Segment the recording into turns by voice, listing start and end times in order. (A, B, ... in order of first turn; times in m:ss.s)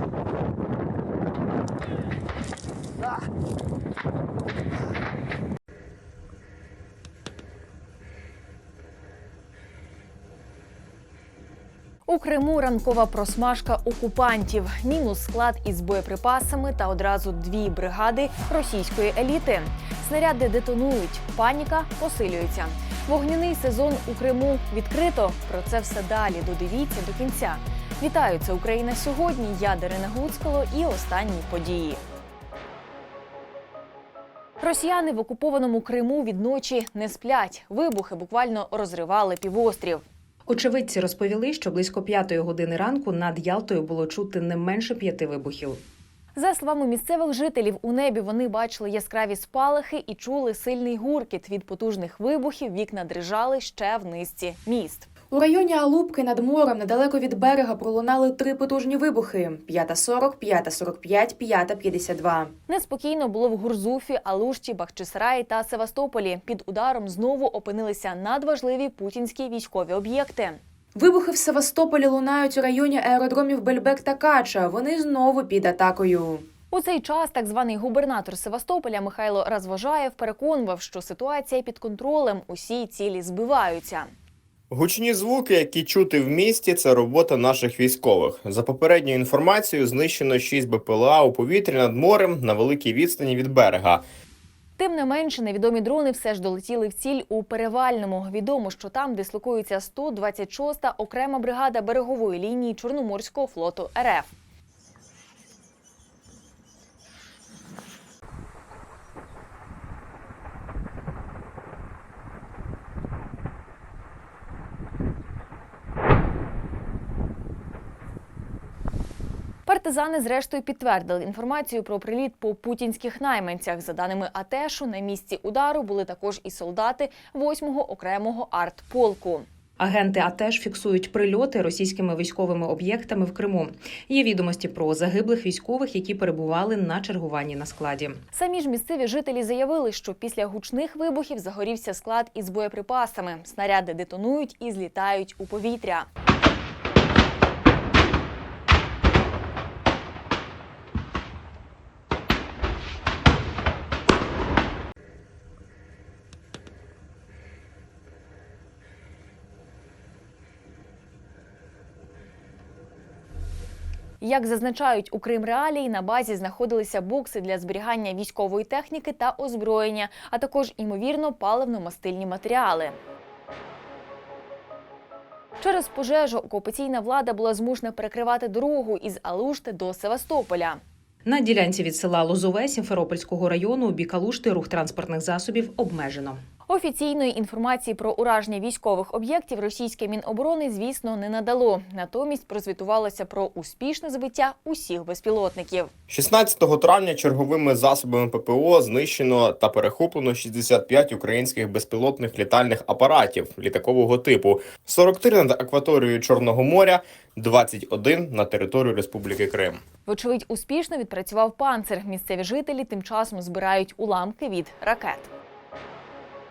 0:12.0-0:32.0 A
0:34.6-0:40.0 A
0:40.5-0:45.8 B
0:46.3-0:55.1 A
0:55.3-1:02.5 C
1:02.7-1:10.6 A
1:11.0-1:16.4 C
1:16.7-1:24.1 A
1:24.7-1:34.0 D
1:34.8-1:44.3 A
1:59.6-2:09.5 A
2:09.8-2:18.2 B
2:18.3-2:26.1 A
2:44.2-2:53.0 A
2:55.6-3:00.8 A
3:01.3-3:06.4 B
3:06.7-3:15.9 A
3:16.1-3:29.8 D
3:30.1-3:35.3 A